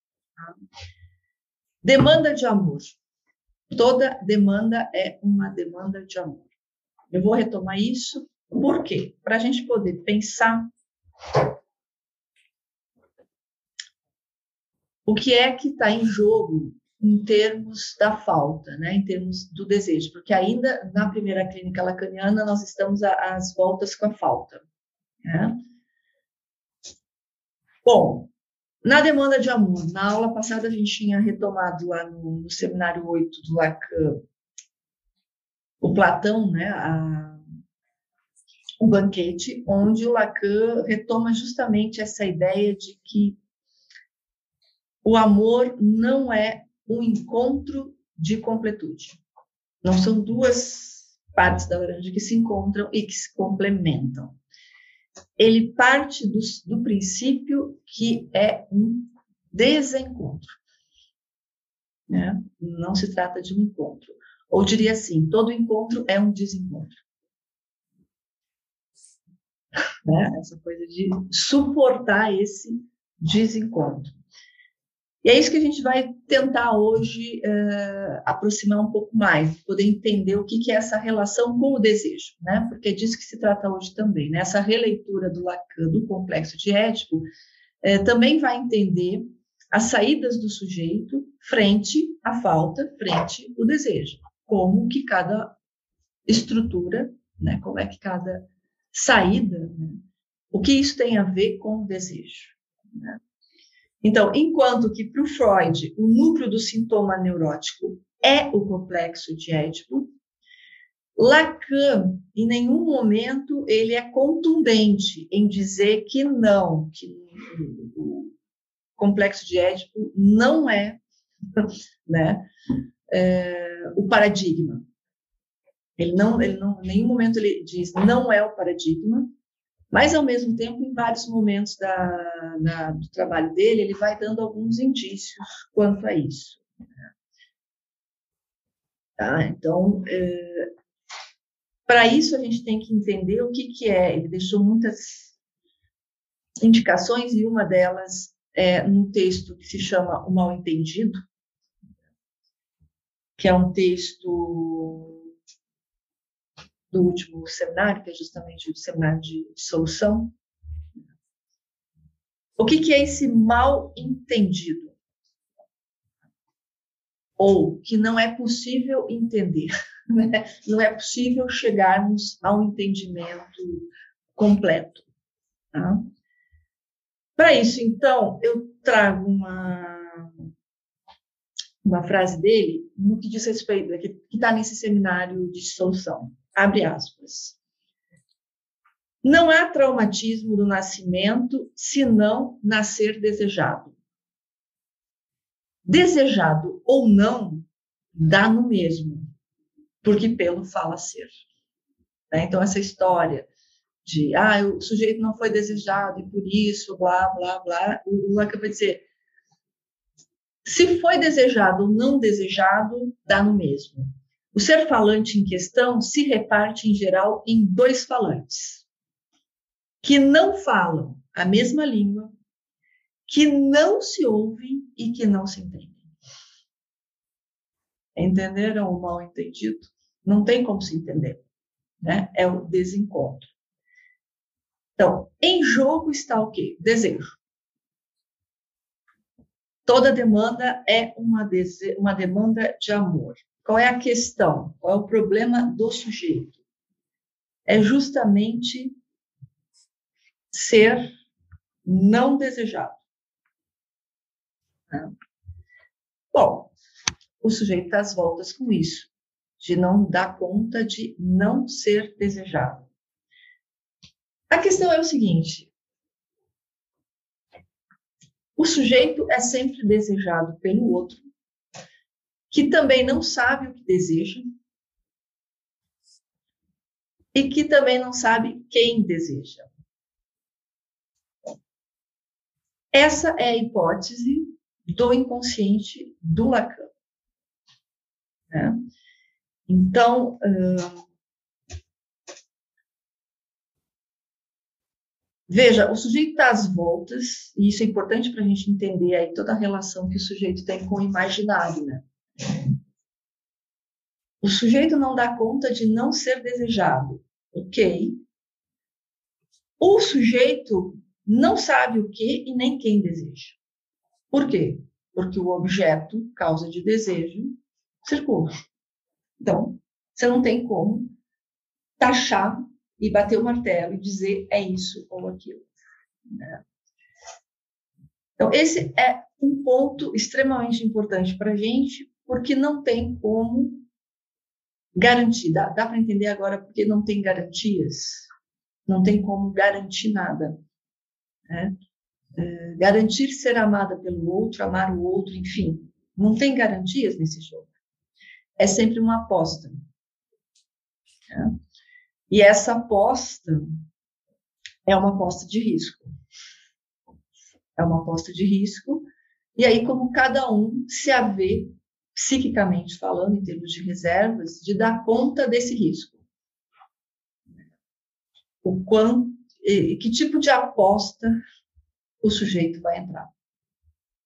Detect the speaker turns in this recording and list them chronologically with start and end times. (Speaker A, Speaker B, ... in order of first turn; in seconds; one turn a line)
Speaker A: 1.8-3.0
Speaker A: 3.7-6.5
Speaker A: 7.1-10.7
Speaker A: 15.1-24.6
Speaker A: 25.2-25.6
Speaker A: 27.8-28.3
Speaker A: 28.8-34.2
Speaker A: 35.8-37.4
Speaker A: 38.8-43.4
Speaker A: 45.0-49.2
Speaker A: 49.8-54.4
Speaker A: 55.4-60.6
Speaker A: 62.1-67.0
Speaker A: 70.0-74.2
Speaker A: 75.2-87.2
Speaker A: 87.8-95.5
Speaker A: 96.3-103.2
Speaker A: 104.0-110.1
Speaker A: 111.2-118.3
Speaker A: 119.0-121.0
Speaker A: 121.5-122.5
Speaker A: 123.1-124.8
Speaker A: 126.0-129.3
Speaker A: 129.9-136.7
Speaker A: 139.2-140.7
Speaker A: 141.9-145.3
Speaker A: 146.6-151.2
Speaker A: 153.4-155.2
Speaker A: 156.9-160.3
Speaker A: 162.6-164.9
Speaker A: 167.4-175.1
Speaker A: 175.7-176.0
Speaker A: 177.4-180.3
Speaker A: 181.8-187.6
Speaker A: 189.2-193.9
Speaker A: 195.8-199.2
Speaker A: 200.0-201.3
Speaker A: 202.3-203.5
Speaker A: 204.0-209.0
Speaker A: 210.6-218.8
Speaker A: 220.0-222.3
Speaker A: 223.3-226.1
Speaker A: 228.2-231.4
Speaker A: 232.0-233.5
Speaker A: 235.0-237.4
Speaker A: 239.8-246.6
Speaker A: 247.7-248.9
Speaker A: 250.5-251.1
Speaker A: 251.8-253.0
Speaker A: 256.3-256.7
Speaker A: 257.4-262.9
Speaker A: 264.5-265.7
Speaker A: 268.6-271.2
Speaker A: 272.5-274.4
Speaker A: 277.3-279.7
Speaker A: 282.9-286.9
Speaker A: 288.5-288.8
Speaker A: 289.7-291.0
Speaker A: 295.5-302.0
Speaker A: 304.4-308.2
Speaker A: 309.8-313.6
Speaker A: 314.3-318.5
Speaker A: 319.4-321.1
Speaker A: 322.0-325.7
Speaker A: 326.3-326.6
Speaker A: 328.4-333.8
Speaker A: 334.9-338.3
Speaker A: 338.9-340.6
Speaker A: 341.5-341.7
Speaker A: 342.4-347.7
Speaker A: 348.6-349.8
Speaker A: 352.3-353.7
Speaker A: 354.8-356.1
Speaker A: 357.8-366.2
Speaker A: 368.6-371.3
Speaker A: 372.2-373.3